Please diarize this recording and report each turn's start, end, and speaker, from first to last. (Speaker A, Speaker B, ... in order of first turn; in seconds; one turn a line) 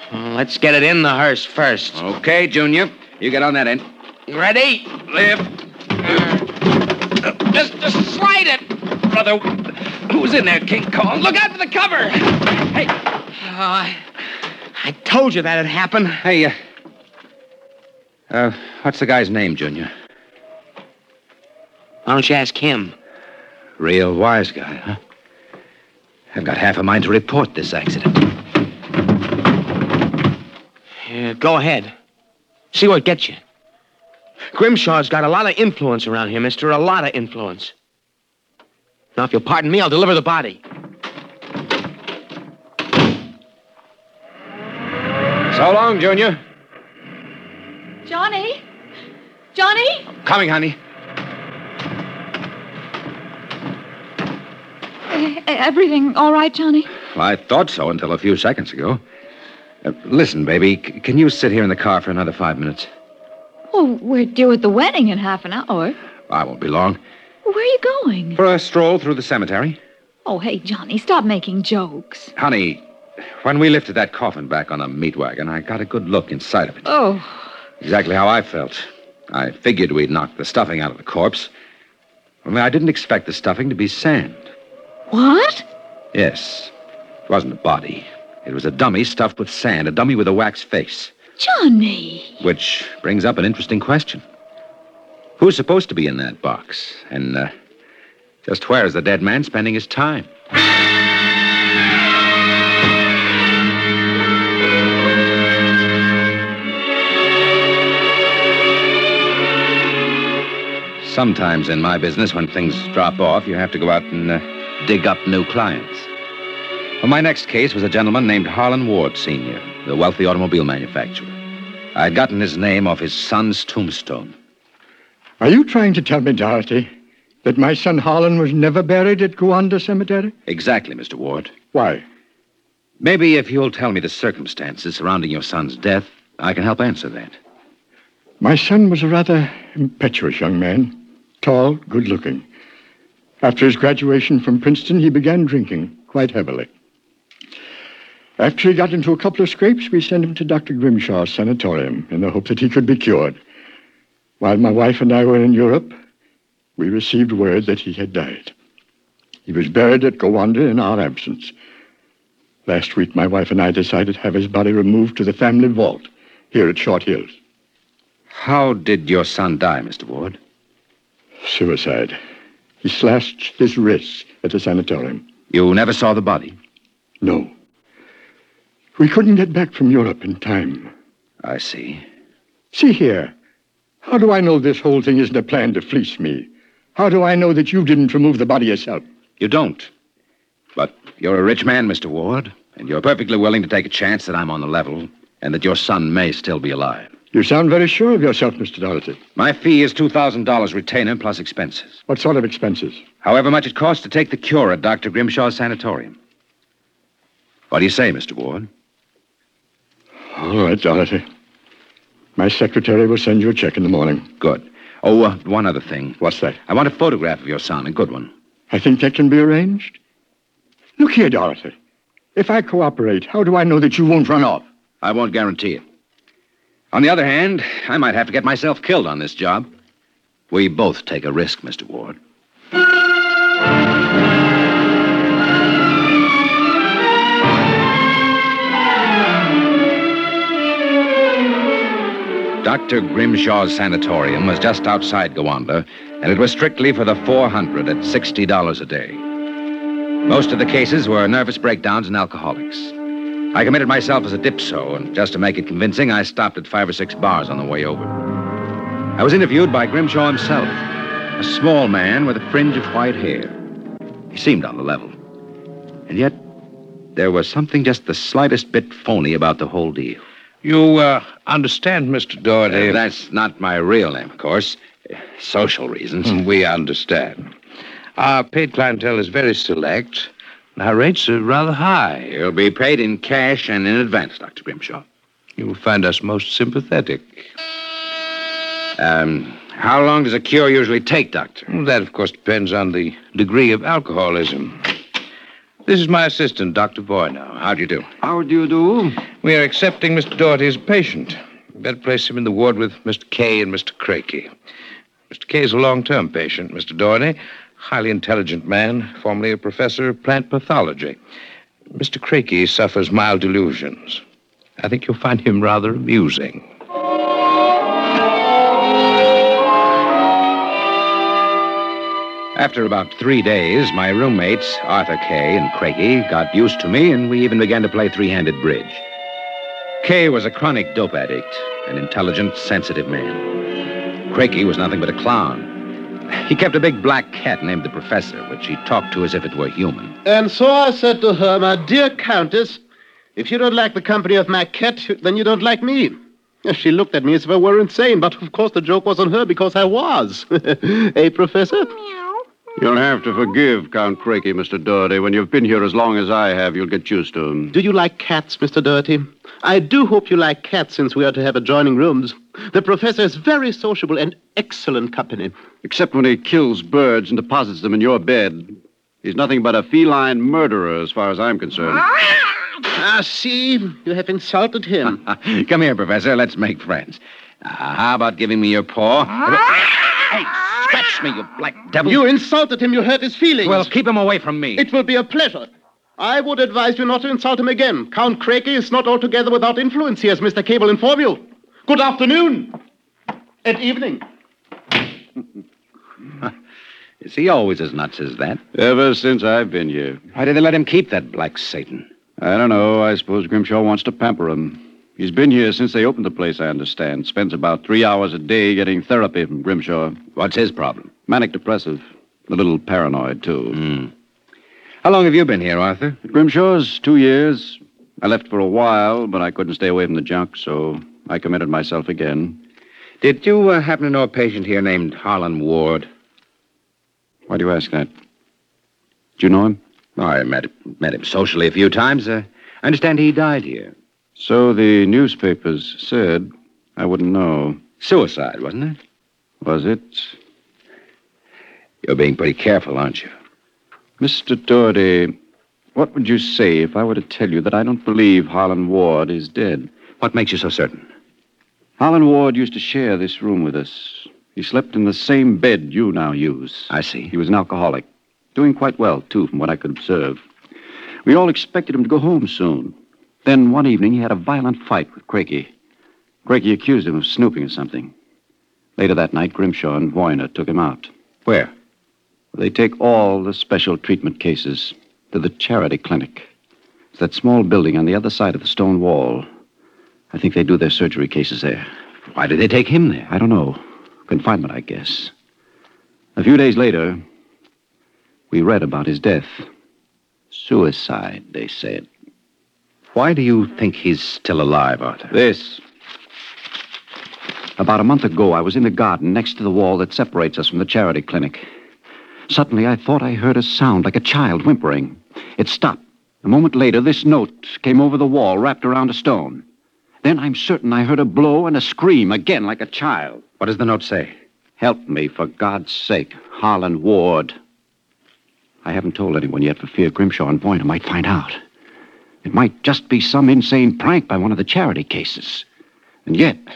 Speaker A: 0.1-2.0
Speaker B: 1.9-3.9
Speaker A: 4.3-5.1
Speaker B: 5.1-5.4
Speaker B: 7.3-12.9
Speaker A: 13.4-14.0
Speaker A: 14.8-16.2
Speaker B: 16.2-16.6
Speaker B: 18.3-19.9
Speaker A: 22.0-22.9
Speaker B: 23.8-25.0
Speaker B: 26.3-28.3
Speaker A: 31.0-31.9
Speaker A: 32.7-33.4
Speaker A: 34.5-37.7
Speaker A: 39.1-40.6
Speaker B: 45.5-46.4
Speaker C: 48.0-48.6
Speaker C: 49.5-50.0
Speaker B: 50.2-50.8
Speaker C: 55.1-56.9
Speaker B: 57.1-59.0
Speaker B: 59.8-62.9
Speaker C: 63.7-66.0
Speaker B: 66.3-67.0
Speaker C: 67.4-68.4
Speaker B: 68.3-69.8
Speaker C: 70.2-72.3
Speaker B: 72.3-72.8
Speaker B: 73.4-76.9
Speaker C: 76.8-77.4
Speaker B: 77.8-81.5
Speaker B: 82.4-84.5
Speaker C: 85.1-85.6
Speaker B: 86.1-86.7
Speaker B: 87.3-91.1
Speaker C: 91.4-92.3
Speaker B: 92.4-94.2
Speaker B: 95.4-97.5
Speaker B: 98.5-100.3
Speaker B: 111.0-116.1
Speaker B: 117.0-121.3
Speaker B: 121.9-124.3
Speaker D: 125.4-126.9
Speaker D: 127.4-130.3
Speaker B: 130.5-131.5
Speaker D: 131.7-132.0
Speaker B: 133.0-137.4
Speaker D: 138.4-142.4
Speaker D: 143.4-146.7
Speaker D: 148.4-153.4
Speaker D: 154.4-155.9
Speaker D: 156.8-158.5
Speaker D: 159.4-161.5
Speaker D: 162.7-167.3
Speaker B: 168.3-170.4
Speaker D: 171.4-172.2
Speaker D: 172.8-175.2
Speaker B: 175.5-176.6
Speaker D: 177.2-177.5
Speaker D: 178.9-180.9
Speaker B: 181.4-182.0
Speaker D: 182.7-183.3
Speaker D: 184.0-189.0
Speaker B: 189.4-189.9
Speaker B: 190.8-197.1
Speaker D: 197.3-199.2
Speaker B: 199.3-202.0
Speaker D: 202.1-203.0
Speaker B: 203.2-206.2
Speaker B: 207.7-208.7
Speaker D: 210.3-211.2
Speaker D: 212.3-214.3
Speaker B: 214.4-218.3
Speaker D: 216.2-216.6
Speaker D: 218.7-220.0
Speaker D: 221.0-221.7
Speaker D: 222.3-224.7
Speaker B: 225.0-225.8
Speaker B: 226.9-229.7
Speaker B: 230.5-232.2
Speaker B: 242.6-249.2
Speaker B: 250.2-252.9
Speaker B: 253.5-258.2
Speaker B: 259.2-263.6
Speaker B: 264.3-265.1
Speaker B: 266.1-266.4
Speaker B: 267.1-270.2
Speaker E: 270.6-273.0
Speaker B: 272.7-276.4
Speaker E: 276.2-277.5
Speaker E: 278.2-282.3
Speaker B: 282.3-285.1
Speaker E: 285.6-287.5
Speaker B: 289.0-291.7
Speaker E: 291.7-294.9
Speaker E: 295.9-297.5
Speaker B: 297.5-298.1
Speaker F: 298.2-299.2
Speaker E: 299.4-304.5
Speaker E: 305.3-311.2
Speaker E: 311.9-314.2
Speaker E: 314.8-316.6
Speaker B: 322.5-329.0
Speaker B: 330.0-333.6
Speaker B: 334.3-340.1
Speaker G: 340.2-342.8
Speaker G: 343.4-352.0
Speaker F: 352.8-357.8
Speaker G: 357.7-365.5
Speaker F: 365.8-372.1
Speaker G: 372.8-375.2
Speaker B: 375.2-382.2
Speaker G: 382.0-383.9
Speaker B: 383.6-384.8
Speaker G: 384.8-392.8
Speaker G: 393.6-394.2
Speaker B: 397.2-398.6
Speaker F: 398.7-400.2
Speaker B: 400.3-402.1
Speaker F: 402.4-410.2
Speaker B: 410.4-411.1
Speaker F: 411.2-413.8
Speaker B: 413.7-414.1
Speaker B: 415.0-416.2
Speaker F: 416.2-422.6
Speaker B: 423.2-426.1
Speaker F: 427.5-428.1
Speaker F: 429.4-429.8
Speaker B: 430.2-433.9
Speaker F: 434.4-437.8
Speaker B: 438.0-439.0
Speaker F: 439.6-440.3
Speaker B: 442.0-443.3
Speaker F: 444.2-445.4
Speaker F: 445.9-449.9
Speaker B: 450.2-451.1
Speaker F: 452.0-460.4
Speaker B: 456.9-457.3
Speaker F: 461.2-465.7
Speaker F: 466.4-468.1
Speaker F: 469.0-471.1
Speaker B: 471.4-471.7
Speaker F: 472.5-476.5
Speaker F: 477.1-479.5
Speaker F: 480.3-481.9
Speaker B: 482.3-483.3
Speaker F: 483.3-485.3
Speaker F: 486.4-487.2
Speaker F: 488.5-489.7
Speaker F: 490.5-492.1
Speaker B: 493.1-495.3
Speaker F: 495.3-495.8
Speaker F: 497.8-501.7
Speaker F: 502.5-509.6
Speaker F: 510.2-513.4
Speaker B: 513.6-514.3
Speaker F: 514.8-517.5
Speaker F: 518.8-521.6
Speaker F: 522.4-525.6
Speaker F: 526.2-526.6